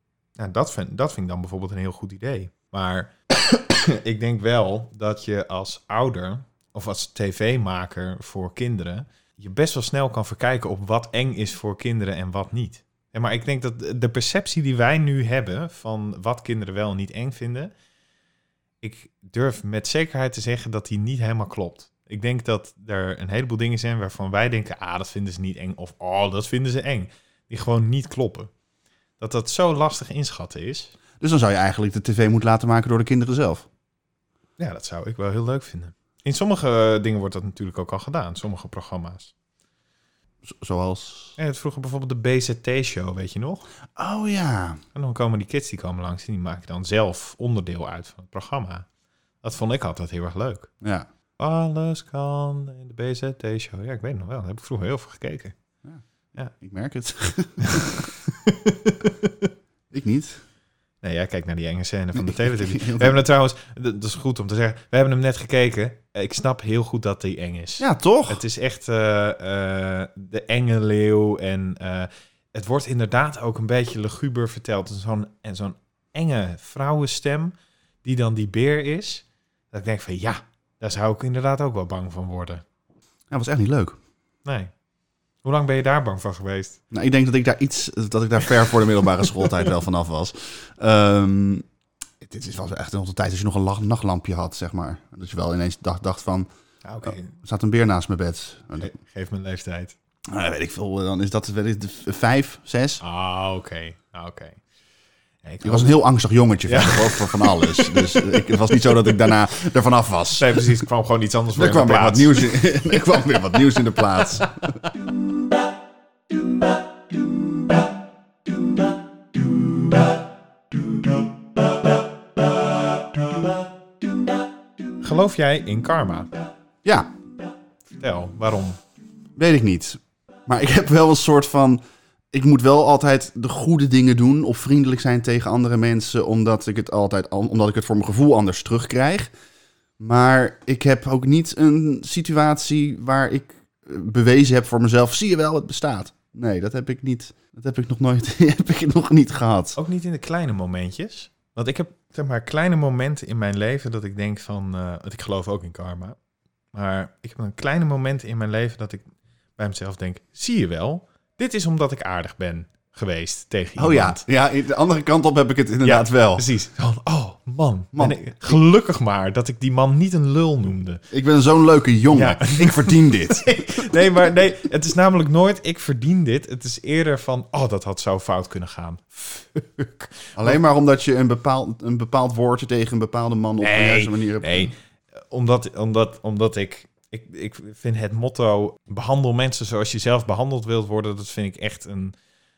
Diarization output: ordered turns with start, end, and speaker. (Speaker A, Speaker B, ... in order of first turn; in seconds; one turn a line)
Speaker A: 0.4-17.7
Speaker A: 18.8-28.5
Speaker A: 29.2-30.9
Speaker B: 31.2-33.7
Speaker A: 34.6-39.3
Speaker B: 40.4-41.4
Speaker A: 41.4-43.6
Speaker B: 44.0-44.8
Speaker A: 44.9-48.9
Speaker A: 49.4-50.7
Speaker B: 50.8-51.1
Speaker A: 51.4-55.5
Speaker B: 56.5-58.1
Speaker A: 57.6-57.9
Speaker A: 58.4-59.5
Speaker B: 59.9-60.4
Speaker A: 61.0-82.6
Speaker B: 62.1-63.2
Speaker B: 67.8-68.4
Speaker B: 83.3-84.0
Speaker A: 84.4-84.7
Speaker A: 85.4-86.8
Speaker B: 86.9-91.7
Speaker B: 92.2-96.5
Speaker A: 96.8-97.3
Speaker B: 97.0-98.9
Speaker A: 98.8-99.9
Speaker B: 100.3-103.0
Speaker A: 103.0-104.6
Speaker A: 105.4-105.9
Speaker B: 105.6-110.6
Speaker A: 106.7-108.6
Speaker A: 110.4-112.6
Speaker B: 111.6-114.8
Speaker A: 125.0-126.3
Speaker B: 126.8-127.1
Speaker A: 128.0-128.8
Speaker B: 129.3-139.3
Speaker B: 140.0-149.8
Speaker A: 149.8-156.2
Speaker A: 156.7-159.1
Speaker A: 159.6-164.2
Speaker B: 163.8-166.4
Speaker A: 165.8-171.0
Speaker B: 167.9-168.6
Speaker B: 171.1-173.8
Speaker A: 172.1-180.6
Speaker B: 180.3-184.7
Speaker A: 183.6-192.1